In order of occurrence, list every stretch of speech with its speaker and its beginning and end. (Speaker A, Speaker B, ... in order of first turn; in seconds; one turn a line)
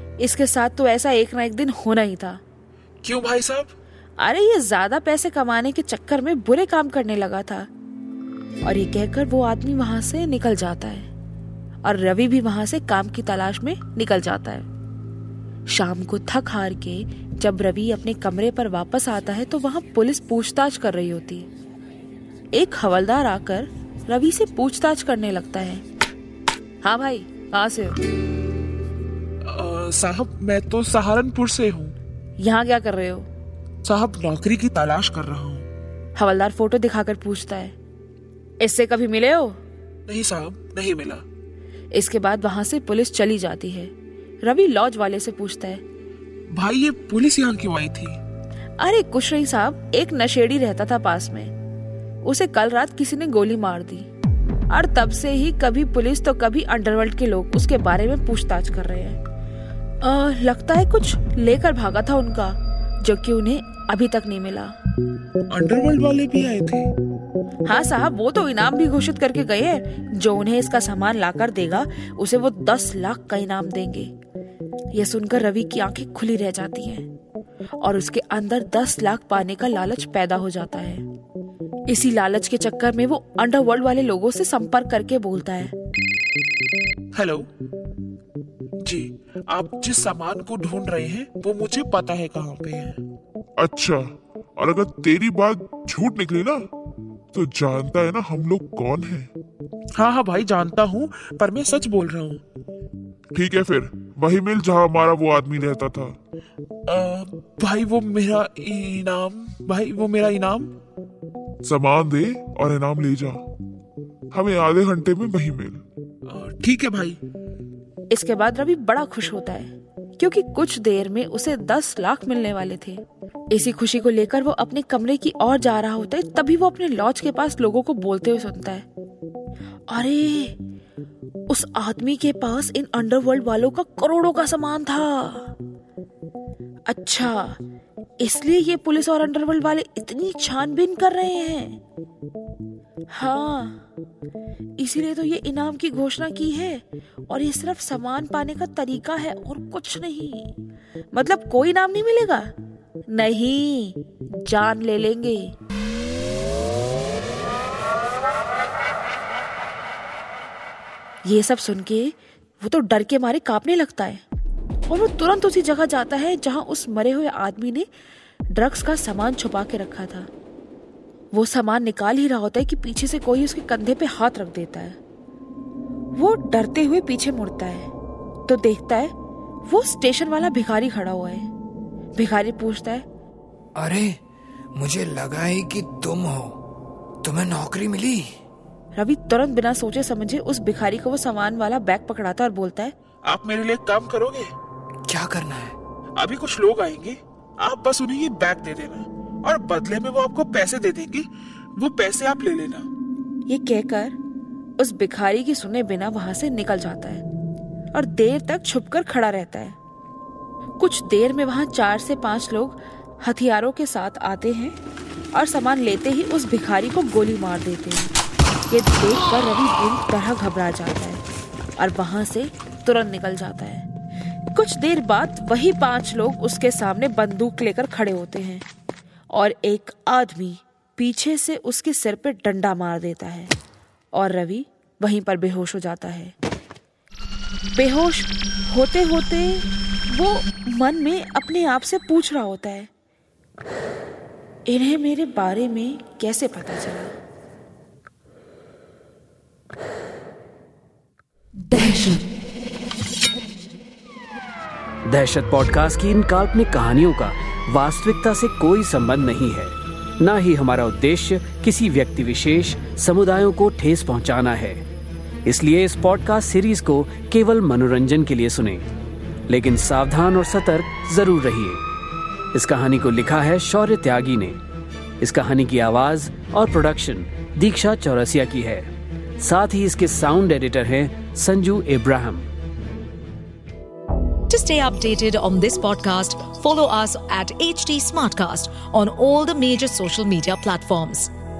Speaker A: 0.2-2.4
Speaker B: 3.0-3.7
Speaker A: 4.2-7.7
Speaker A: 8.6-11.1
Speaker A: 11.8-14.7
Speaker A: 15.7-21.5
Speaker A: 22.5-25.8
Speaker A: 26.8-28.0
Speaker B: 29.4-31.9
Speaker A: 32.4-33.3
Speaker B: 33.8-35.7
Speaker A: 36.2-37.7
Speaker A: 38.6-39.6
Speaker B: 40.1-41.2
Speaker A: 41.9-43.9
Speaker A: 44.4-45.8
Speaker B: 46.5-48.2
Speaker A: 48.8-51.5
Speaker A: 52.2-54.1
Speaker A: 54.7-59.2
Speaker A: 60.0-64.7
Speaker B: 65.5-66.9
Speaker A: 67.6-74.1
Speaker A: 74.9-77.1
Speaker A: 77.8-81.0
Speaker A: 81.9-85.7
Speaker B: 87.1-87.5
Speaker B: 88.8-93.0
Speaker C: 93.6-94.0
Speaker C: 94.6-96.6
Speaker C: 97.3-99.3
Speaker B: 100.0-102.4
Speaker C: 103.3-106.2
Speaker B: 106.9-110.7
Speaker C: 111.6-113.4
Speaker C: 114.3-115.8
Speaker B: 116.2-117.2
Speaker A: 118.1-128.8
Speaker A: 129.9-130.6
Speaker A: 131.5-135.5
Speaker A: 136.9-137.6
Speaker A: 138.2-141.8
Speaker A: 143.1-143.8
Speaker A: 144.8-150.5
Speaker A: 151.1-152.5
Speaker A: 153.1-155.5
Speaker A: 161.2-164.2
Speaker A: 164.9-167.9
Speaker A: 168.5-170.3
Speaker A: 171.3-175.0
Speaker A: 176.2-177.9
Speaker A: 178.5-179.1
Speaker A: 179.7-181.5
Speaker A: 182.1-183.0
Speaker D: 183.8-184.2
Speaker D: 184.7-186.6
Speaker D: 187.2-188.3
Speaker A: 188.9-192.9
Speaker B: 193.2-194.5
Speaker D: 195.1-195.8
Speaker B: 196.2-202.9
Speaker A: 203.5-204.2
Speaker A: 204.8-207.2
Speaker A: 207.9-209.8
Speaker A: 210.8-214.8
Speaker A: 215.3-218.1
Speaker A: 218.7-221.2
Speaker A: 221.8-223.8
Speaker A: 224.5-228.6
Speaker A: 229.3-233.5
Speaker A: 234.1-236.3
Speaker A: 237.8-242.9
Speaker A: 244.7-247.1
Speaker E: 255.1-264.8
Speaker E: 265.4-268.9
Speaker E: 269.5-271.8
Speaker E: 272.5-274.6
Speaker E: 275.2-278.9
Speaker E: 279.4-282.5
Speaker F: 284.5-291.3